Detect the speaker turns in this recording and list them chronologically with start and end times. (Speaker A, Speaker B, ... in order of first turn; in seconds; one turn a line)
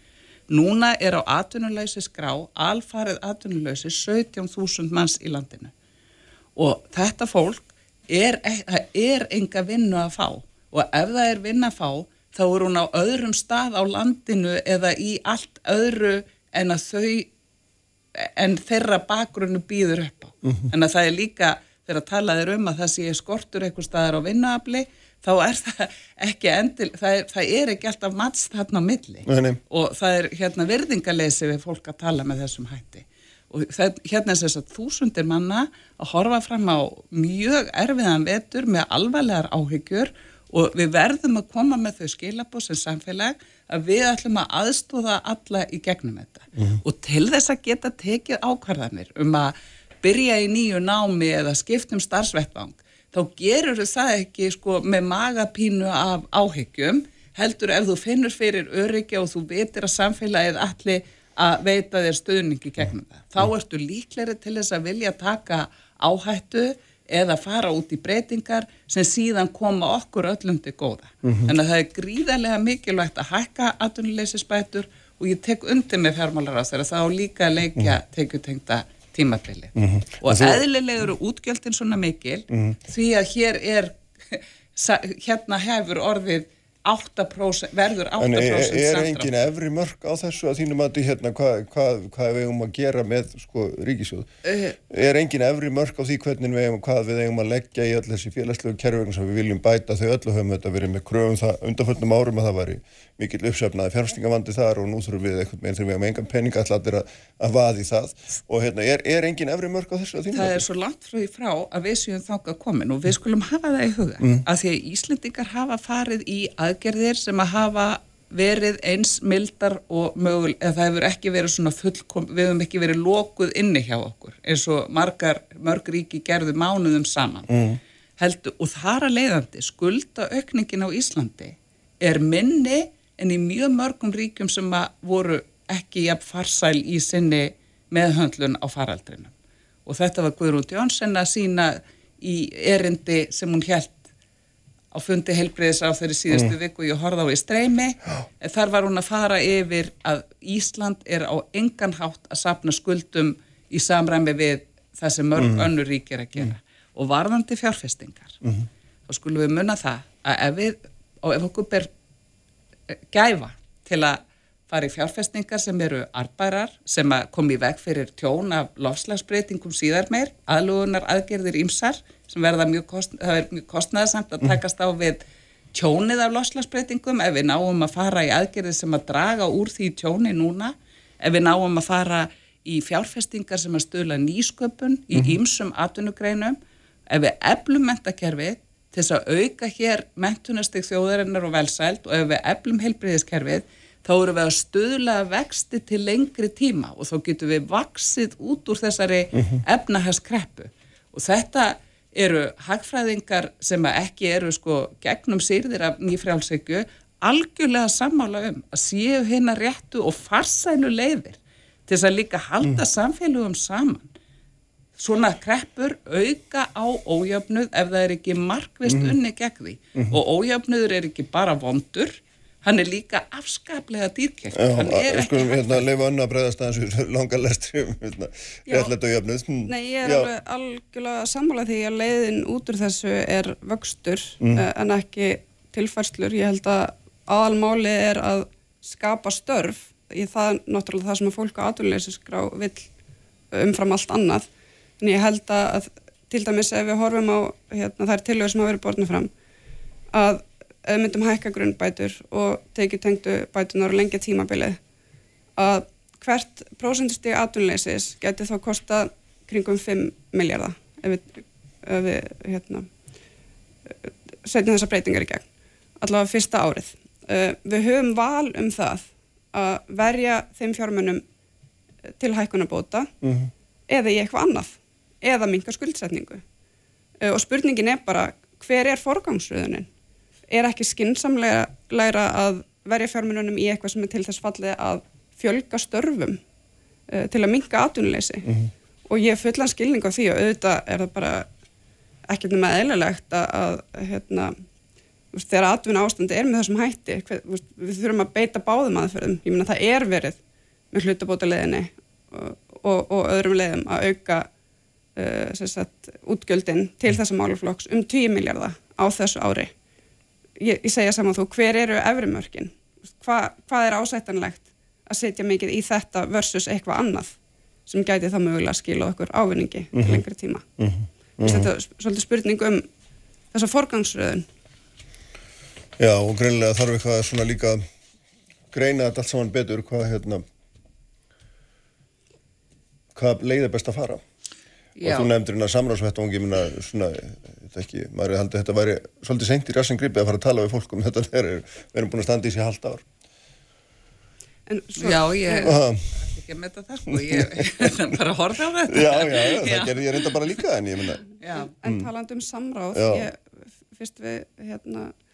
Speaker A: 0.5-5.7
Speaker A: 6.5-17.3
Speaker A: 18.1-89.3
Speaker B: 20.4-20.7
Speaker B: 29.2-29.6
Speaker B: 46.5-46.8
Speaker B: 71.2-71.5
Speaker B: 79.8-80.6
Speaker B: 82.5-82.8
Speaker B: 88.2-94.3
Speaker A: 94.4-94.8
Speaker B: 94.9-110.6
Speaker A: 110.3-127.6
Speaker B: 127.5-127.8
Speaker A: 128.2-139.3
Speaker A: 139.8-144.0
Speaker A: 144.9-158.4
Speaker B: 155.4-155.7
Speaker A: 159.1-161.9
Speaker A: 162.9-175.2
Speaker A: 175.7-186.6
Speaker A: 187.1-214.1
Speaker B: 199.3-199.6
Speaker A: 215.0-225.8
Speaker B: 218.9-219.1
Speaker B: 224.5-230.3
Speaker C: 229.7-242.9
Speaker B: 234.4-234.7
Speaker C: 243.5-244.5
Speaker C: 245.0-249.3
Speaker C: 250.1-254.8
Speaker C: 255.6-262.9
Speaker C: 264.0-265.4
Speaker C: 266.0-271.2
Speaker C: 272.2-273.1
Speaker B: 273.2-273.5
Speaker C: 273.9-276.4
Speaker C: 277.2-279.9
Speaker C: 280.5-286.4
Speaker C: 287.1-288.5
Speaker B: 288.4-288.7
Speaker C: 289.1-291.5
Speaker C: 292.3-294.5
Speaker C: 295.3-300.4
Speaker C: 300.9-304.5
Speaker C: 305.1-309.7
Speaker C: 310.6-320.6
Speaker B: 319.9-320.2
Speaker B: 320.8-321.7
Speaker C: 321.4-322.9
Speaker C: 323.5-324.4
Speaker B: 326.0-327.8
Speaker B: 328.7-330.4
Speaker B: 333.1-334.2
Speaker A: 334.9-335.3
Speaker B: 335.0-343.0
Speaker C: 344.7-345.7
Speaker A: 345.0-350.6
Speaker B: 345.6-346.0
Speaker B: 347.1-347.9
Speaker B: 348.9-351.2
Speaker A: 351.4-351.7
Speaker C: 351.6-353.4
Speaker B: 351.8-352.1
Speaker B: 352.9-353.3
Speaker C: 353.9-355.1